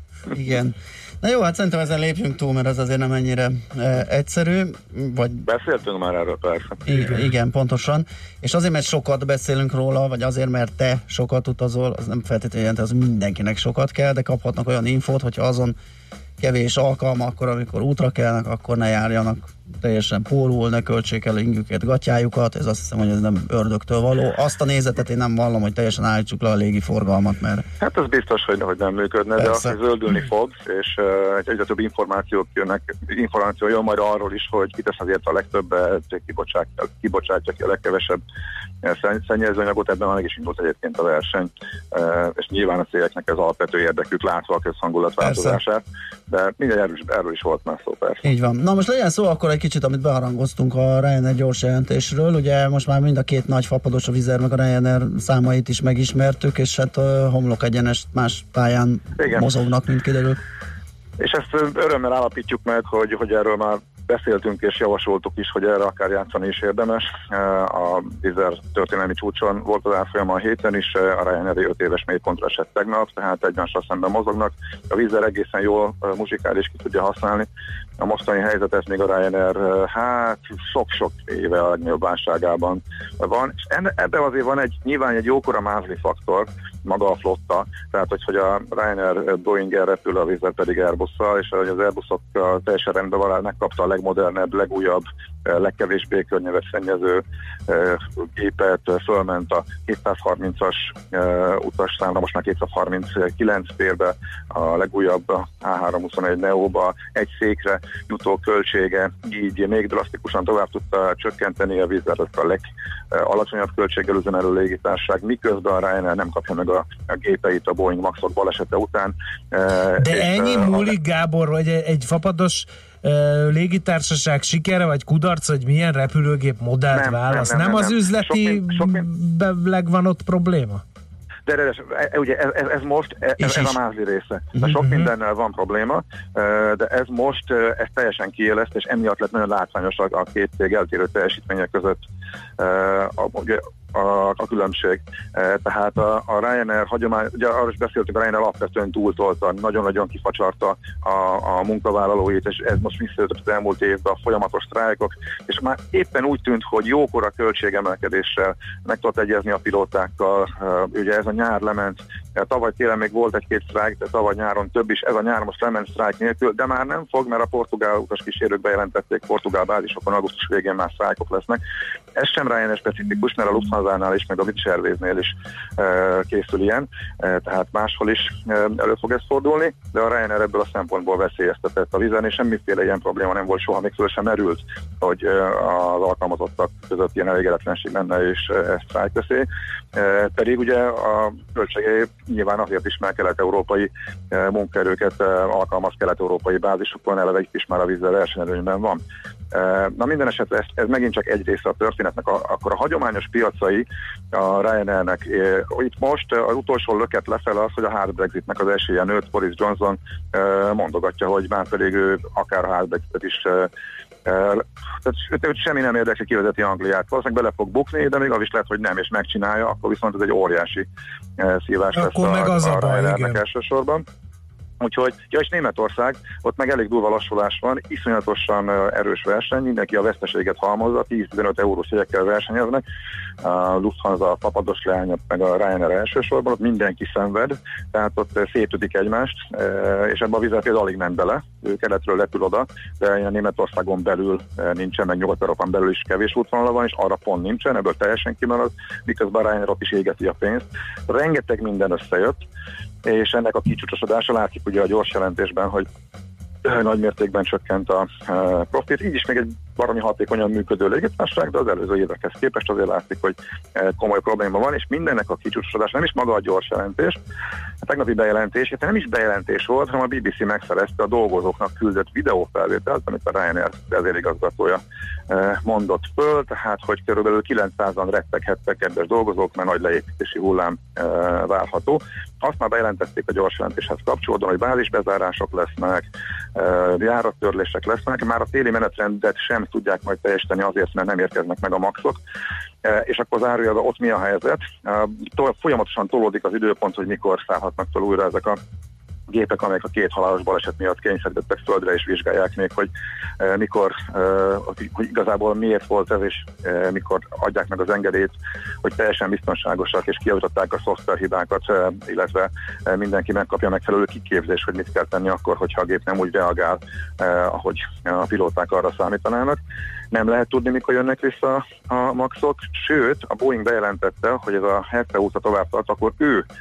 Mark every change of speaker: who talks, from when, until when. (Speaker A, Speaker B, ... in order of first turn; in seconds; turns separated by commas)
Speaker A: 0.3-5.4, Speaker B: 5.4-6.8, Speaker A: 6.9-15.7, Speaker A: 16.4-27.6, Speaker B: 27.8-38.2, Speaker A: 29.4-29.7, Speaker B: 38.8-48.2, Speaker A: 45.2-45.6, Speaker A: 48.2-60.4, Speaker B: 59.2-59.5, Speaker B: 61.2-77.5, Speaker B: 78.0-121.0, Speaker C: 120.0-130.8, Speaker B: 126.9-129.1, Speaker B: 131.4-142.0, Speaker A: 133.4-133.8, Speaker C: 134.8-135.1, Speaker B: 142.6-171.6, Speaker B: 172.2-199.0, Speaker B: 199.5-213.7, Speaker B: 214.2-220.9, Speaker B: 221.4-224.0, Speaker C: 221.9-223.4, Speaker B: 224.8-232.8, Speaker B: 233.4-252.4, Speaker B: 253.1-255.8, Speaker B: 256.6-267.2, Speaker B: 267.8-292.2, Speaker B: 292.8-298.6, Speaker B: 299.3-319.6, Speaker B: 320.1-326.4